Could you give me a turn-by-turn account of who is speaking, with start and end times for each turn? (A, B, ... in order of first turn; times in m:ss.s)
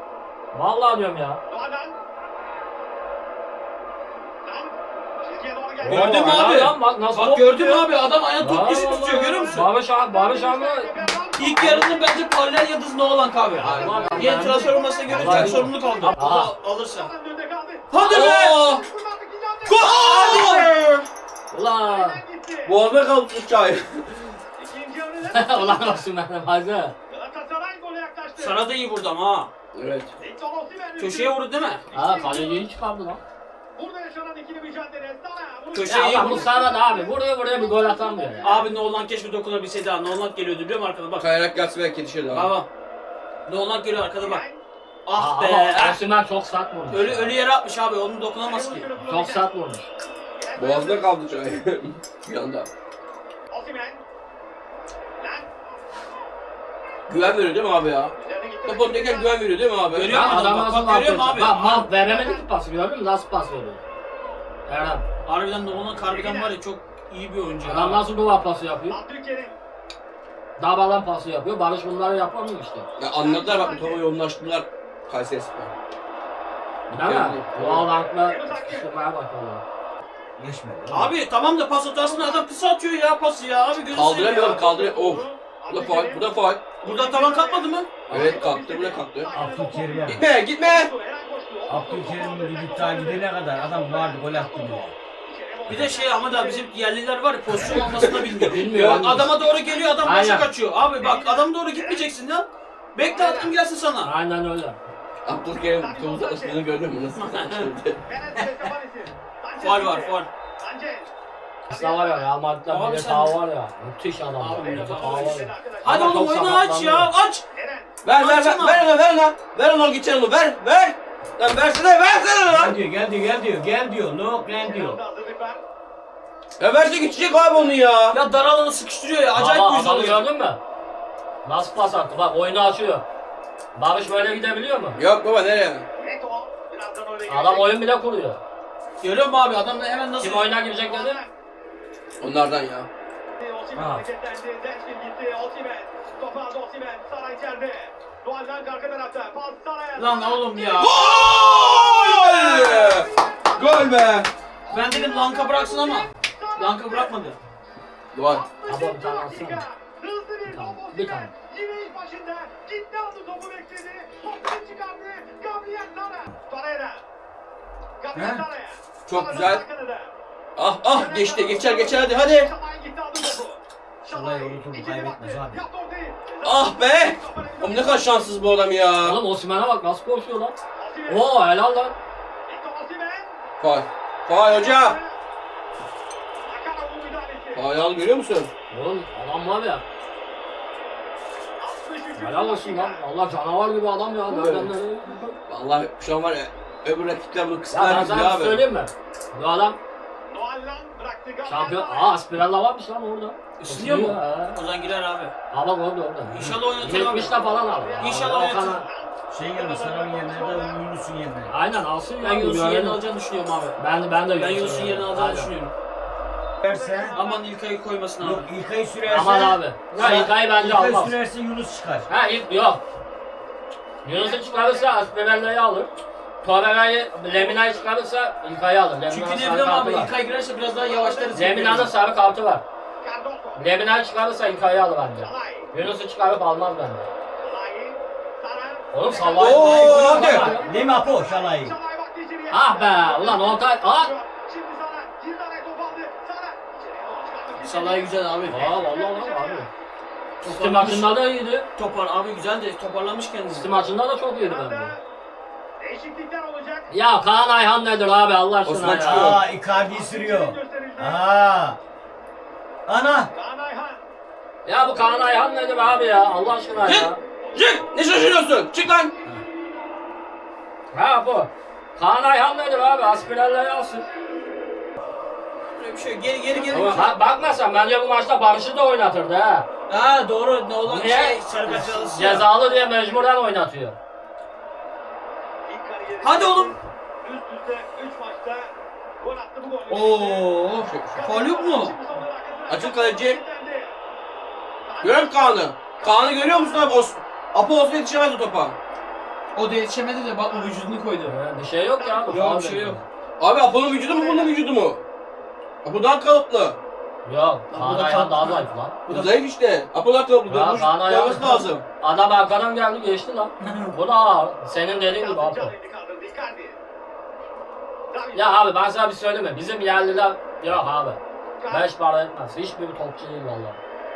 0:00.5-0:01.4 A
0:01.5-0:02.0 B
0:04.4-0:06.4 B
0:05.8-0:11.0 A
0:05.8-0:09.7 C
0:09.2-0:12.2 B
0:11.4-0:17.1 C
0:13.6-0:14.4 D
0:13.6-0:16.5 A
0:14.0-0:20.6 B
0:15.1-0:15.6 D
0:17.9-0:18.6 C
0:18.0-0:18.8 D
0:19.7-0:20.8 C
0:19.8-0:21.0 D
0:21.5-0:22.2 A
0:21.8-0:22.8 B
0:22.7-0:24.4 D
0:24.6-0:26.1 B
0:25.3-0:27.0 A
0:27.1-0:28.7 B
0:28.4-0:29.5 C
0:29.7-0:30.1 D
0:30.2-0:32.7 B
0:31.0-0:31.9 C
0:31.9-0:33.2 A
0:33.7-0:38.8 B
0:35.7-0:36.5 C
0:35.9-0:38.6 A
0:38.4-0:41.3 C
0:41.2-0:42.5 D
0:42.3-0:42.7 C
0:43.5-0:44.4 C
0:44.2-0:44.6 B
0:45.1-0:46.0 C
0:45.1-0:47.4 A
0:46.9-0:48.9 C
0:48.4-0:49.5 B
0:49.0-0:49.9 A
0:50.4-0:51.6 B
0:50.6-0:52.7 D
0:53.5-0:54.0 B
0:55.2-0:55.5 B
0:57.1-1:00.4 D
0:58.2-0:59.5 B
0:59.9-1:01.8 C
1:00.1-1:03.8 A
1:01.5-1:02.5 B
1:04.7-1:05.1 A
1:05.2-1:08.0 C
1:06.1-1:06.6 B
1:07.6-1:09.0 A
1:08.9-1:09.6 B
1:10.6-1:12.9 A
1:13.0-1:15.7 D
1:13.2-1:14.1 B
1:16.9-1:19.6 A
1:16.9-1:17.9 D
1:18.3-1:18.9 B
1:20.4-1:21.2 E
1:20.9-1:24.7 C
1:22.0-1:22.5 B
1:23.9-1:26.7 D
1:24.4-1:36.7 B
1:26.8-1:28.1 C
1:28.1-1:29.5 D
1:29.3-1:30.2 E
1:29.4-1:29.6 A
1:30.1-1:30.9 D
1:31.7-1:34.9 E
1:35.7-1:44.1 C
1:37.5-1:37.9 B
1:37.5-1:39.3 D
1:38.4-1:39.3 A
1:40.0-1:40.5 A
1:41.0-1:42.1 B
1:43.0-1:43.6 B
1:44.0-1:44.8 A
1:45.2-1:48.0 D
1:45.8-1:46.7 B
1:47.1-1:47.7 C
1:48.0-1:51.1 B
1:48.4-1:48.7 E
1:49.6-1:50.3 C
1:51.7-1:57.1 A
1:51.7-1:52.3 B
1:52.7-1:53.4 C
1:54.4-1:57.4 C
1:54.6-1:56.5 B
1:57.5-1:58.0 B
1:58.0-2:02.8 D
1:58.1-1:58.9 C
2:02.5-2:05.0 E
2:04.6-2:05.6 B
2:06.6-2:08.2 D
2:07.0-2:07.8 B
2:08.1-2:10.3 C
2:09.3-2:10.6 A
2:11.4-2:13.0 A
2:13.8-2:15.0 A
2:15.0-2:15.9 D
2:16.0-2:17.8 B
2:17.3-2:18.4 A
2:19.0-2:20.5 C
2:20.2-2:21.2 A
2:20.6-2:21.3 B
2:22.2-2:22.9 D
2:23.4-2:34.0 B
2:23.8-2:24.0 C
2:29.9-2:31.0 C
2:30.8-2:34.3 D
2:34.7-2:37.2 B
2:34.7-2:37.4 C
2:38.1-2:38.5 D
2:38.3-2:47.0 B
2:38.7-2:39.6 A
2:40.5-2:41.3 A
2:48.0-2:50.1 B
2:49.1-2:49.6 D
2:50.6-2:52.5 D
2:50.9-2:58.3 B
2:54.1-2:55.6 E
2:56.4-2:59.2 D
2:59.0-3:00.6 A
3:00.8-3:01.2 B
3:01.1-3:02.0 A
3:02.5-3:03.4 B
3:03.6-3:05.0 D
3:04.3-3:05.2 B
3:06.4-3:07.6 B
3:07.5-3:08.5 D
3:08.7-3:09.8 A
3:11.6-3:13.1 B
3:12.2-3:15.4 A
3:14.3-3:14.7 D
3:15.5-3:18.6 D
3:17.7-3:19.8 A
3:20.3-3:22.2 B
3:21.4-3:24.6 A
3:23.6-3:25.3 C
3:25.5-3:28.9 A
3:26.3-3:27.4 C
3:27.1-3:30.8 B
3:28.0-3:28.8 C
3:29.3-3:31.5 E
3:31.5-3:33.0 A
3:32.2-3:33.8 C
3:33.8-3:35.5 A
3:34.4-3:35.7 C
3:36.6-3:37.2 E
3:36.6-3:37.5 B
3:37.1-3:38.5 C
3:38.2-3:42.1 E
3:39.1-3:41.2 A
3:42.1-3:42.8 A
3:44.0-3:45.9 A
3:44.1-3:45.0 B
3:46.4-3:50.1 A
3:49.1-3:51.9 C
3:50.8-3:51.5 B
3:51.3-3:52.6 A
3:53.0-3:53.6 B
3:53.6-3:57.1 A
3:55.2-3:55.7 B
3:57.4-4:09.7 B
3:58.9-4:00.7 A
3:59.4-4:00.5 D
3:59.4-4:00.3 C
4:00.5-4:01.7 E
4:02.5-4:04.1 A
4:07.6-4:08.6 C
4:08.5-4:09.7 A
4:10.4-4:11.2 C
4:10.4-4:11.7 A
4:11.8-4:13.7 C
4:13.5-4:14.9 A
4:14.4-4:15.0 B
4:15.8-4:16.9 B
4:16.9-4:19.4 A
4:18.6-4:19.4 D
4:19.0-4:21.8 E
4:19.7-4:21.2 B
4:22.9-4:23.3 E
4:23.3-4:24.0 B
4:24.6-4:27.2 A
4:26.8-4:27.8 C
4:27.7-4:29.1 D
4:30.9-4:34.1 A
4:35.8-4:37.2 C
4:36.5-4:37.1 D
4:36.9-4:39.7 A
4:39.9-4:42.5 C
4:40.8-4:41.4 A
4:42.0-4:44.0 A
4:42.7-4:43.1 B
4:45.7-4:50.6 B
4:46.2-4:46.8 C
4:49.9-4:52.0 C
4:50.8-4:51.2 D
4:51.1-4:54.0 B
4:52.7-4:53.4 D
4:54.9-4:57.0 B
4:55.0-4:58.8 D
4:59.5-5:01.3 C
5:00.5-5:00.8 B
5:01.2-5:03.0 A
5:02.0-5:02.5 B
5:02.3-5:03.0 C
5:03.4-5:05.0 D
5:03.9-5:04.6 B
5:05.8-5:06.8 D
5:07.2-5:09.0 A
5:07.7-5:09.3 C
5:09.1-5:11.8 D
5:10.5-5:15.7 A
5:13.6-5:13.9 C
5:14.9-5:16.8 B
5:18.1-5:18.7 B
5:18.3-5:23.8 A
5:21.6-5:21.9 B